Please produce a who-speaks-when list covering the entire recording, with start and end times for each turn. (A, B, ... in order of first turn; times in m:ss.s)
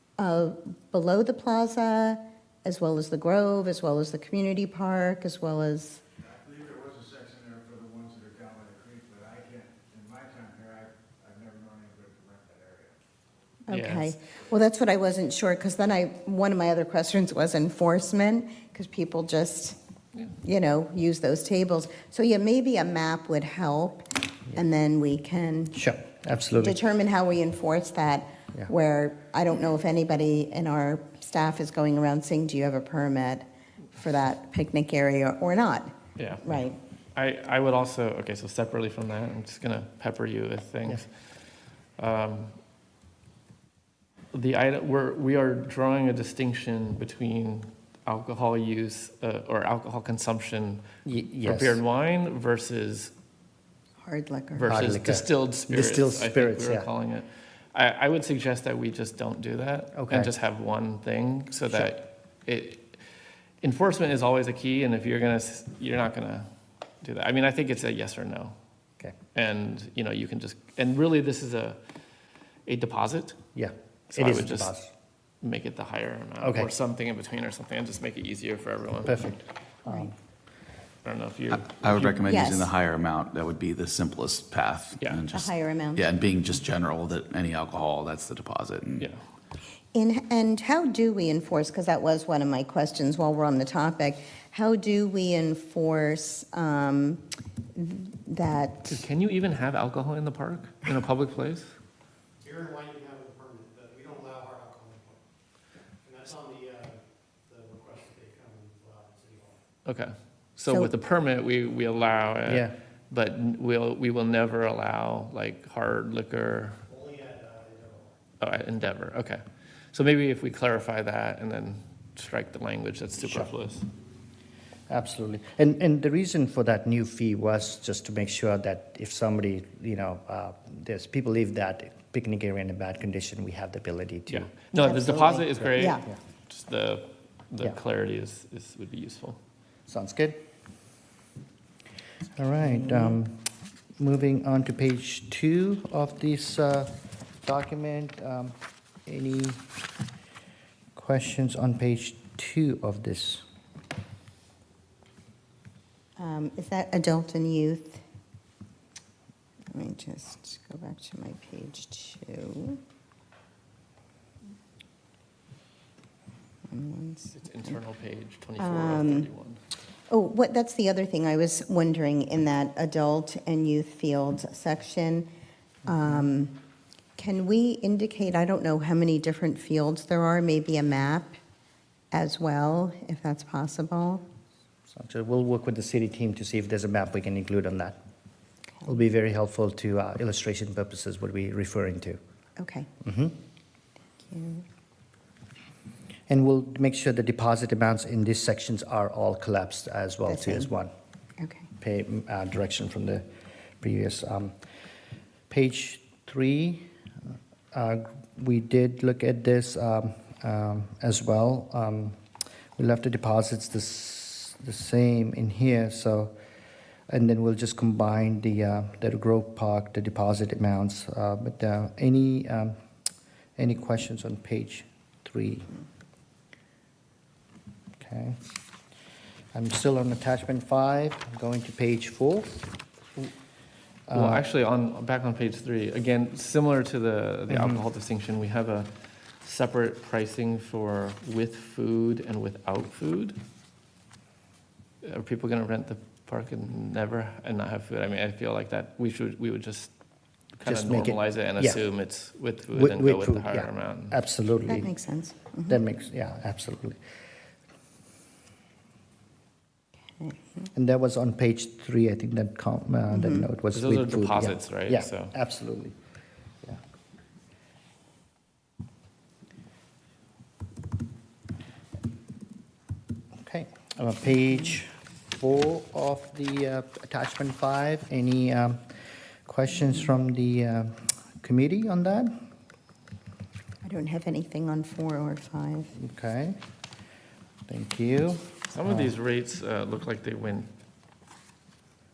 0:00.2-0:06.0 A
0:06.4-0:12.9 B
0:13.7-0:19.8 A
0:13.7-0:14.1 C
0:20.4-0:25.8 A
0:25.7-0:26.8 D
0:26.6-0:36.8 A
0:36.2-0:36.4 C
0:37.1-0:41.1 C
0:42.0-0:42.6 C
0:44.3-0:50.8 C
0:51.0-0:51.8 D
0:51.4-0:53.1 C
0:54.0-0:54.8 A
0:54.5-1:02.9 C
0:54.7-0:56.9 D
0:59.9-1:00.3 D
1:03.6-1:06.5 C
1:07.0-1:08.6 C
1:09.3-1:11.8 C
1:12.6-1:13.4 C
1:13.5-1:14.9 D
1:14.1-1:14.7 C
1:15.4-1:19.3 C
1:16.4-1:16.7 D
1:19.0-1:20.1 D
1:21.0-1:22.2 C
1:21.5-1:29.0 E
1:22.3-1:22.7 A
1:25.3-1:26.0 A
1:29.9-1:37.2 A
1:37.7-1:39.0 A
1:38.9-1:41.7 C
1:42.4-1:45.2 F
1:46.0-1:49.6 F
1:49.8-1:56.8 C
1:52.4-1:52.7 D
1:56.9-1:58.2 F
1:58.4-1:59.4 C
1:59.9-2:03.9 C
2:03.2-2:03.5 D
2:04.9-2:16.2 D
2:14.3-2:19.4 C
2:14.8-2:16.0 A
2:19.9-2:20.4 D
2:22.4-2:23.4 D
2:22.8-2:23.1 A
2:24.0-2:26.9 D
2:27.4-2:28.5 D
2:29.0-2:29.6 D
2:30.9-2:33.4 D
2:36.2-2:38.0 A
2:39.7-2:42.8 A
2:46.7-2:47.8 A
2:47.3-2:49.6 C
2:48.6-2:49.3 A
2:50.1-2:55.3 A
2:55.8-2:56.6 A
2:57.2-3:01.4 A
3:02.1-3:04.2 A
3:04.9-3:08.0 D
3:08.8-3:12.2 D
3:12.6-3:12.9 A
3:13.0-3:13.4 D
3:14.2-3:14.6 A
3:16.3-3:20.9 D
3:20.3-3:20.7 A
3:21.4-3:21.7 A
3:21.8-3:23.2 D
3:23.8-3:24.5 D
3:25.5-3:26.8 D
3:27.7-3:32.2 D
3:32.8-3:36.3 D
3:37.1-3:42.7 D
3:43.6-3:45.7 D
3:48.0-3:48.4 D
3:49.5-3:52.6 D
3:54.1-3:54.4 D
3:54.1-3:58.9 C
3:57.5-3:57.8 D
3:59.4-4:03.4 C
4:05.0-4:09.9 C
4:10.6-4:14.2 C
4:10.6-4:11.8 D
4:12.7-4:14.9 D
4:14.7-4:15.8 A
4:15.7-4:17.0 D
4:20.2-4:20.6 A
4:20.7-4:26.0 D
4:23.1-4:23.5 A
4:23.7-4:25.3 C
4:33.4-4:42.3 D
4:43.8-4:45.9 A
4:46.0-4:46.6 D
4:47.7-4:49.1 D
4:48.7-4:50.7 C